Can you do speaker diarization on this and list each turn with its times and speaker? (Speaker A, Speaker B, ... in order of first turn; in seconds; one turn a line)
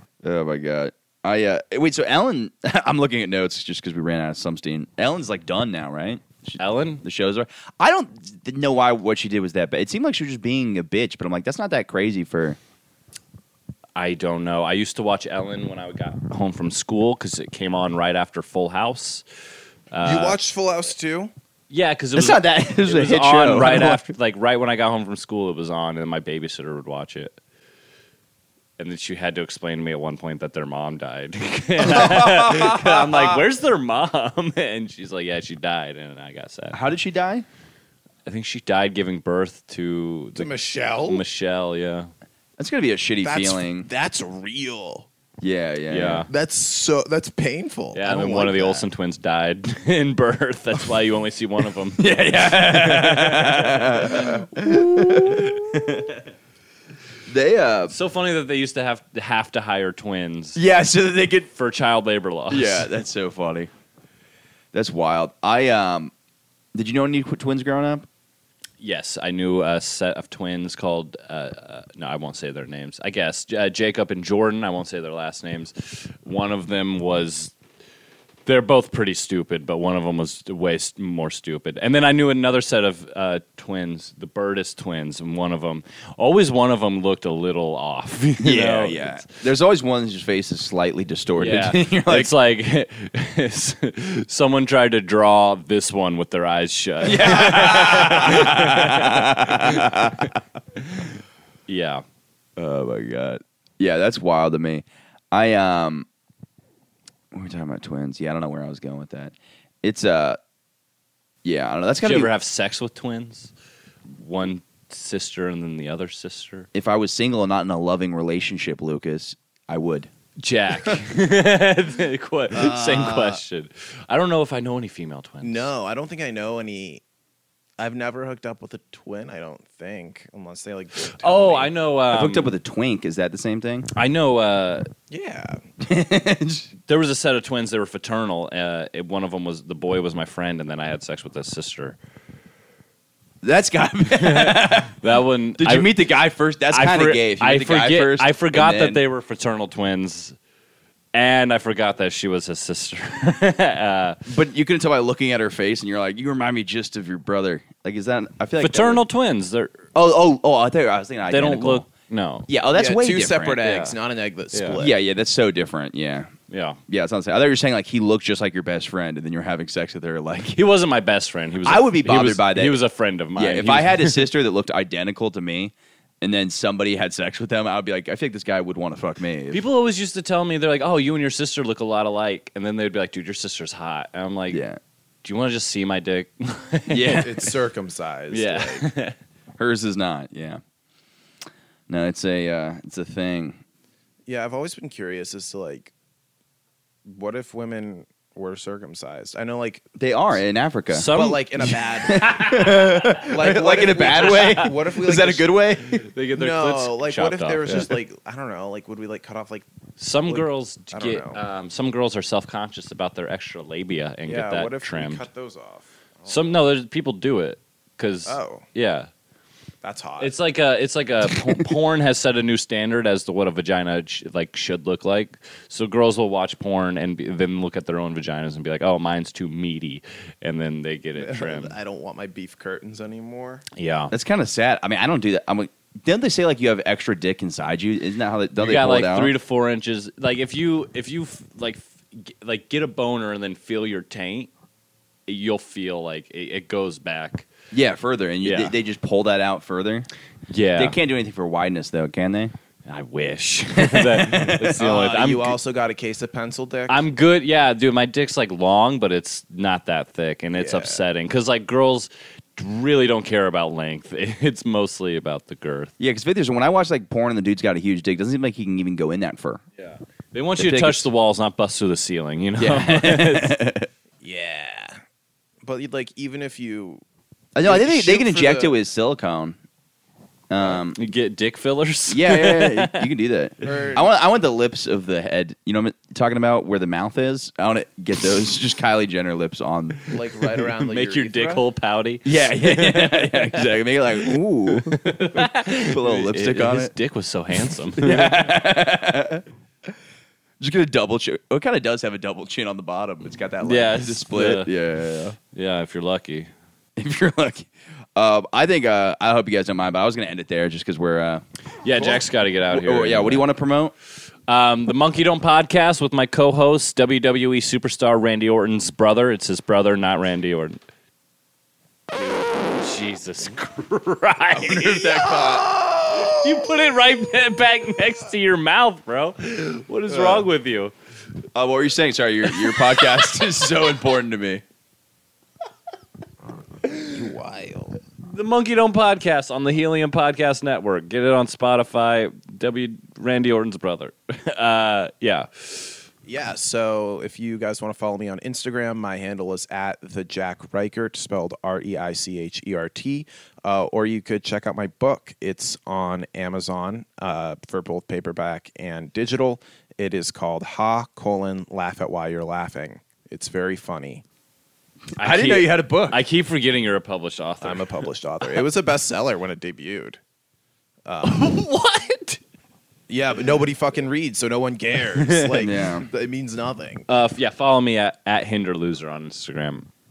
Speaker A: 0.2-12.6
Speaker B: 6.6-7.0
Speaker B: 13.9-19.2
Speaker B: 19.9-20.4
Speaker C: 20.0-21.3
Speaker B: 21.7-27.4
Speaker A: 22.1-24.1
Speaker B: 28.8-36.8
Speaker A: 31.8-33.0
Speaker A: 36.7-37.4
Speaker B: 38.2-40.5
Speaker C: 40.4-41.2
Speaker B: 41.0-42.1
Speaker A: 42.6-43.9
Speaker C: 43.2-45.1
Speaker A: 45.4-46.2
Speaker B: 45.9-46.3
Speaker C: 46.3-48.9
Speaker B: 47.9-56.1
Speaker A: 52.0-56.1
Speaker A: 57.3-57.9
Speaker B: 57.9-60.6
Speaker A: 60.5-61.5
Speaker B: 61.5-62.9
Speaker A: 62.5-63.7
Speaker A: 64.7-66.1
Speaker A: 66.7-68.1
Speaker B: 68.8-77.5
Speaker B: 78.5-89.2
Speaker A: 88.4-92.3
Speaker B: 91.4-101.1
Speaker A: 97.0-100.4
Speaker B: 101.7-102.0
Speaker A: 102.6-106.1
Speaker A: 107.3-110.4
Speaker A: 111.4-112.3
Speaker B: 112.0-113.5
Speaker B: 114.1-116.7
Speaker A: 116.7-120.1
Speaker B: 120.4-125.7
Speaker C: 122.5-123.4
Speaker C: 125.4-127.0
Speaker C: 127.8-131.7
Speaker B: 131.2-132.5
Speaker A: 132.1-133.9
Speaker B: 133.9-134.9
Speaker C: 135.1-135.6
Speaker A: 135.8-136.7
Speaker B: 136.8-142.0
Speaker A: 143.4-145.0
Speaker B: 144.2-145.9
Speaker A: 145.6-149.0
Speaker B: 146.7-150.3
Speaker B: 151.1-154.2
Speaker A: 154.2-159.0
Speaker B: 158.6-159.8
Speaker A: 159.9-161.9
Speaker B: 161.3-162.5
Speaker A: 162.5-163.6
Speaker C: 162.7-164.9
Speaker B: 163.6-163.9
Speaker B: 164.5-164.8
Speaker A: 164.8-166.3
Speaker B: 166.5-166.8
Speaker A: 166.9-170.6
Speaker B: 170.5-174.3
Speaker A: 171.6-172.8
Speaker A: 173.3-179.6
Speaker B: 179.5-184.6
Speaker A: 184.5-184.8
Speaker B: 185.2-187.5
Speaker A: 186.9-187.3
Speaker C: 187.1-188.9
Speaker B: 188.3-189.2
Speaker A: 189.6-190.6
Speaker A: 191.9-193.6
Speaker C: 194.3-195.9
Speaker C: 197.1-200.0
Speaker A: 200.0-206.1
Speaker B: 200.9-203.3
Speaker C: 201.1-202.5
Speaker C: 203.2-205.5
Speaker B: 204.1-204.7
Speaker B: 206.0-207.9
Speaker C: 206.3-209.7
Speaker B: 210.0-215.2
Speaker C: 210.2-211.4
Speaker C: 214.2-216.5
Speaker B: 216.3-219.1
Speaker C: 218.2-218.6
Speaker C: 219.8-220.3
Speaker B: 220.2-231.7
Speaker A: 221.3-221.7
Speaker C: 231.2-233.6
Speaker B: 233.7-234.1
Speaker A: 234.1-239.3
Speaker B: 238.6-244.5
Speaker B: 245.3-247.5
Speaker A: 247.7-250.1
Speaker B: 248.4-248.7
Speaker B: 250.5-251.0
Speaker A: 250.8-252.5
Speaker B: 252.8-255.6
Speaker A: 253.8-254.7
Speaker C: 254.8-257.1
Speaker B: 256.9-265.9
Speaker C: 260.6-261.0
Speaker A: 266.0-269.6
Speaker B: 269.8-273.6
Speaker A: 270.6-271.1
Speaker A: 272.6-273.9
Speaker C: 274.2-275.0
Speaker C: 275.6-277.0
Speaker A: 277.5-279.6
Speaker C: 277.6-278.7
Speaker A: 280.5-281.0
Speaker B: 280.9-283.1
Speaker A: 282.1-290.1
Speaker C: 283.6-284.1
Speaker C: 290.1-291.6
Speaker B: 290.8-298.5
Speaker A: 292.2-296.9
Speaker A: 297.9-299.9
Speaker A: 300.6-305.4
Speaker B: 303.6-304.7
Speaker B: 305.5-306.5
Speaker A: 307.0-311.4
Speaker B: 311.8-313.5
Speaker A: 311.9-313.9
Speaker B: 314.5-320.8
Speaker B: 322.1-330.9
Speaker A: 324.5-325.7
Speaker A: 331.5-334.6
Speaker B: 332.5-333.6
Speaker C: 336.9-338.0
Speaker B: 338.2-346.0
Speaker C: 346.2-364.2
Speaker A: 365.1-366.2
Speaker B: 365.2-367.9
Speaker C: 367.6-370.2
Speaker C: 371.1-371.5
Speaker B: 371.2-372.4
Speaker C: 373.1-377.1
Speaker B: 375.2-375.6
Speaker A: 375.6-376.1
Speaker B: 377.1-379.9